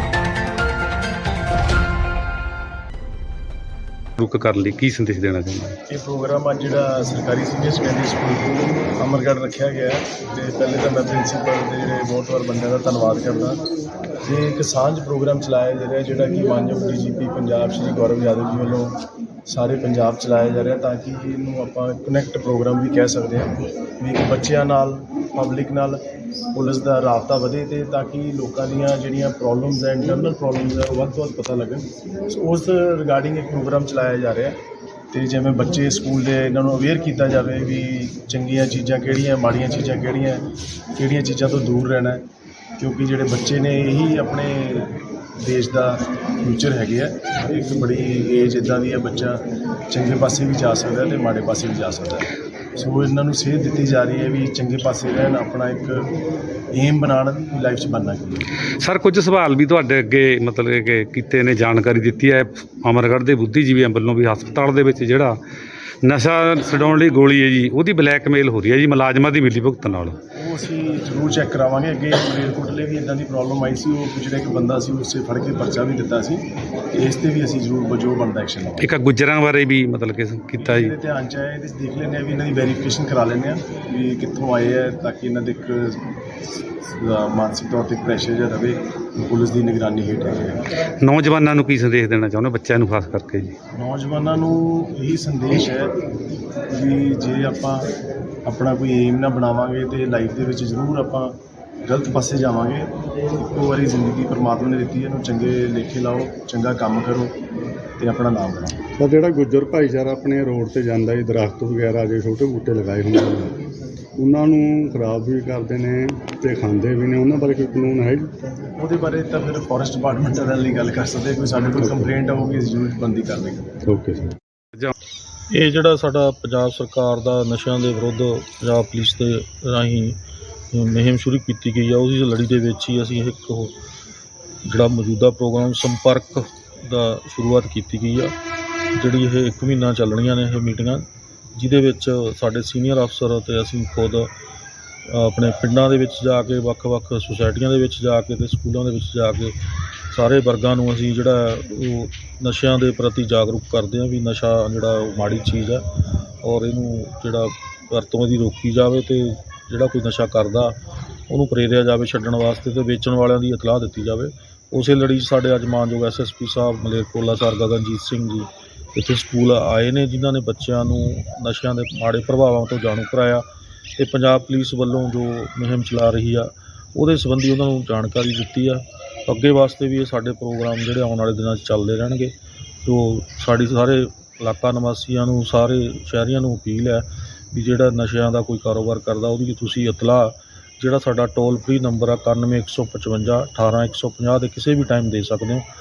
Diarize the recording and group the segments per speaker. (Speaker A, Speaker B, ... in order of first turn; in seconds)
Speaker A: 4.2-5.8, 58.8-65.4, 66.0-70.2, 78.8-81.0, 91.0-93.5
Speaker B: 5.9-13.6, 14.2-26.0, 26.5-34.6, 35.1-42.2, 42.8-49.4, 49.9-56.1, 56.7-58.5, 70.4-78.9, 80.6-86.0, 86.8-90.6, 93.7-95.9, 96.7-97.8, 98.5-101.3, 101.8-102.9, 103.4-107.3, 108.0-108.8, 118.8-123.7
Speaker C: 109.0-113.6, 114.2-118.3, 121.8-122.1, 123.8-124.3
Speaker D: 125.5-130.2, 130.7-133.8, 134.6-138.3, 138.9-144.3, 145.1-160.8, 161.3-173.4, 174.0-195.7